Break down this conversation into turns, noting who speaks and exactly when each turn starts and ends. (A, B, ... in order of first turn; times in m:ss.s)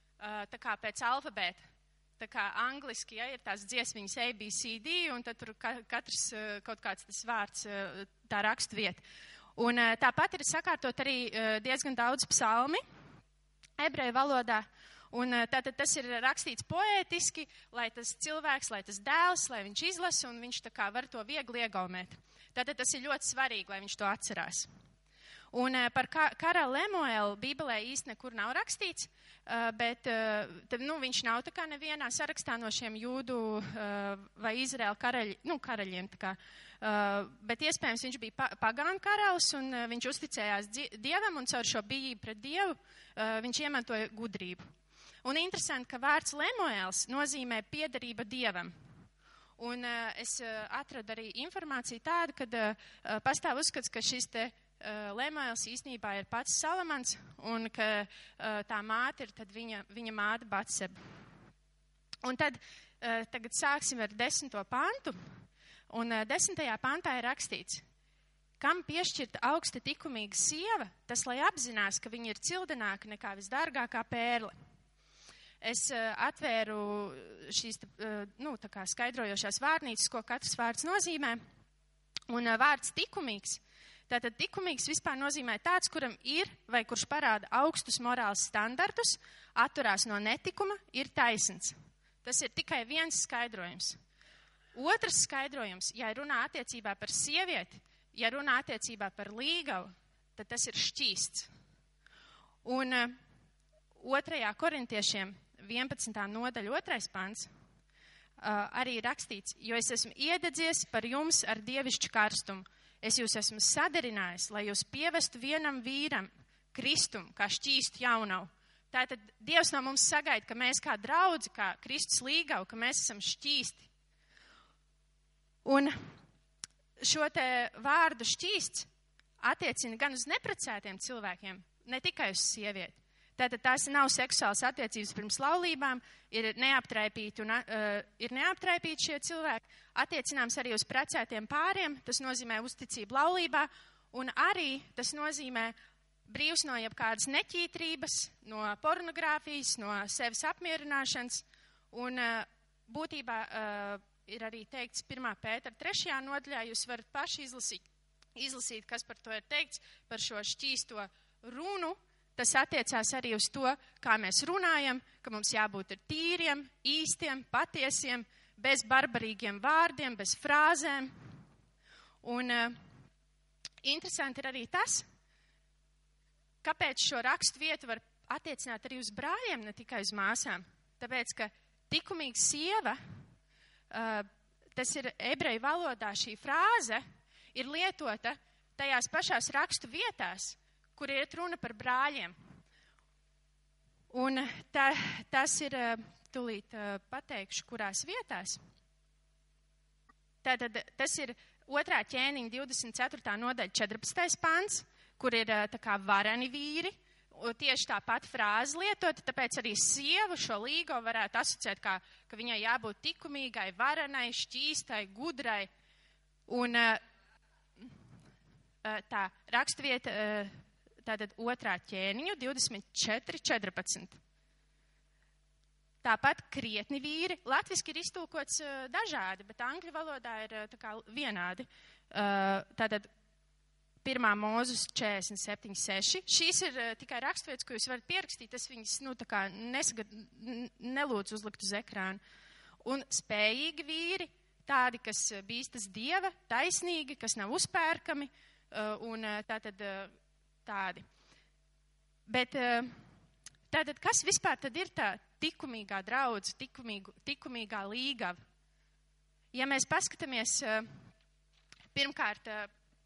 0:00.2-0:01.6 A
0:02.2-0:09.0 A
0:09.6-0:12.8 A
0:13.8-0:24.7 A
0:25.5-0:44.7 A
0:45.2-0:48.7 A
0:49.6-1:01.0 A
1:02.2-1:05.2 A
1:05.9-1:07.8 A
1:08.6-1:14.5 A
1:15.6-1:21.4 A
1:22.3-1:34.0 A
1:34.7-1:41.5 A
1:42.6-1:43.2 A
1:44.0-1:47.5 A
1:48.4-2:03.9 A
2:05.6-2:06.0 A
2:07.0-2:08.9 A
2:09.4-2:25.7 A
2:26.3-2:37.8 A
2:38.3-2:51.1 A
2:52.2-2:52.7 A
2:53.8-2:55.0 A
2:56.6-3:03.0 A
3:03.9-3:07.0 A
3:07.5-3:12.3 A
3:14.1-3:18.6 A
3:20.4-3:35.7 A
3:36.5-3:37.0 A
3:38.8-3:44.2 A
3:46.0-3:53.1 A
3:54.0-4:02.2 A
4:02.8-4:10.1 A
4:10.6-4:11.0 A
4:12.3-4:12.9 A
4:13.7-4:18.4 A
4:19.5-4:20.9 A
4:21.9-4:22.7 A